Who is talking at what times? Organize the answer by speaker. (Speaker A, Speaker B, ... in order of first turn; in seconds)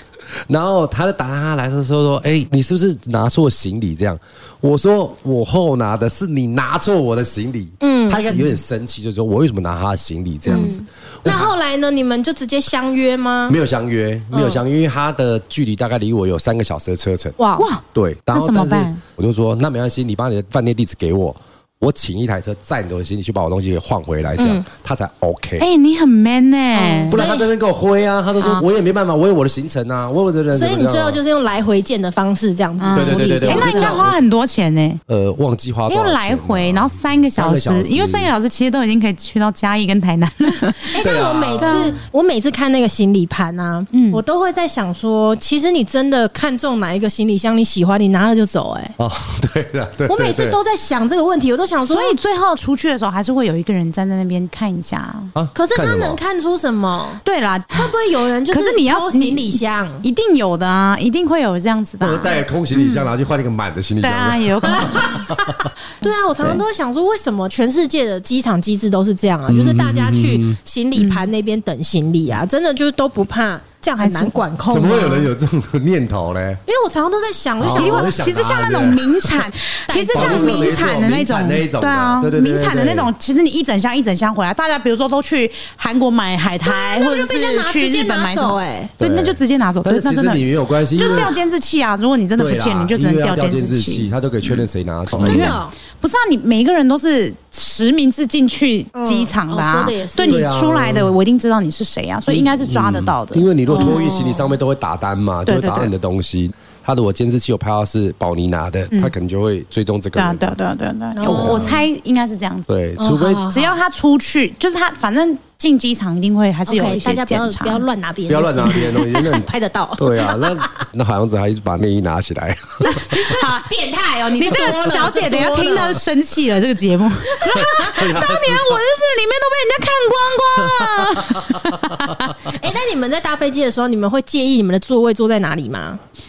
Speaker A: 0.5-11.5, 13.5-17.4, 17.9-25.7, 27.1-31.2, 32.9-34.2, 35.1-38.3, 41.0-42.0, 49.0-50.6, 55.4-56.2, 62.0-65.7, 69.5-70.6, 74.7-76.6, 77.6-79.4, 80.1-83.1, 89.0-91.4, 92.4-95.6, 100.3-101.1, 102.3-110.6, 111.2-111.8, 112.7-113.4, 118.3-123.2, 127.5-128.8, 130.6-132.2
Speaker B: 7.8-8.4, 10.5-13.6, 14.3-14.6, 17.4-17.7, 24.4-24.6, 26.7-27.5, 30.5-34.0, 40.9-49.0, 50.1-52.2, 55.5-60.0, 64.7-65.3, 66.0-75.3, 76.7-78.2, 79.9-80.9, 86.6-88.9, 91.0-91.3, 95.2-95.8, 98.9-100.5, 103.7-104.5, 111.2-111.8, 113.0-113.8, 116.7-120.8, 122.8-126.0, 127.3-127.9, 132.5-136.0
Speaker C: 17.6-19.0, 25.6-27.2, 32.8-35.0, 35.9-40.9, 41.6-41.9, 43.9-44.2, 51.8-55.3, 57.2-57.9, 58.5-63.0, 64.0-65.3, 71.0-71.2, 74.0-74.4, 77.7-104.0, 105.5-105.9, 110.2-117.8, 123.1-123.7, 124.4-132.5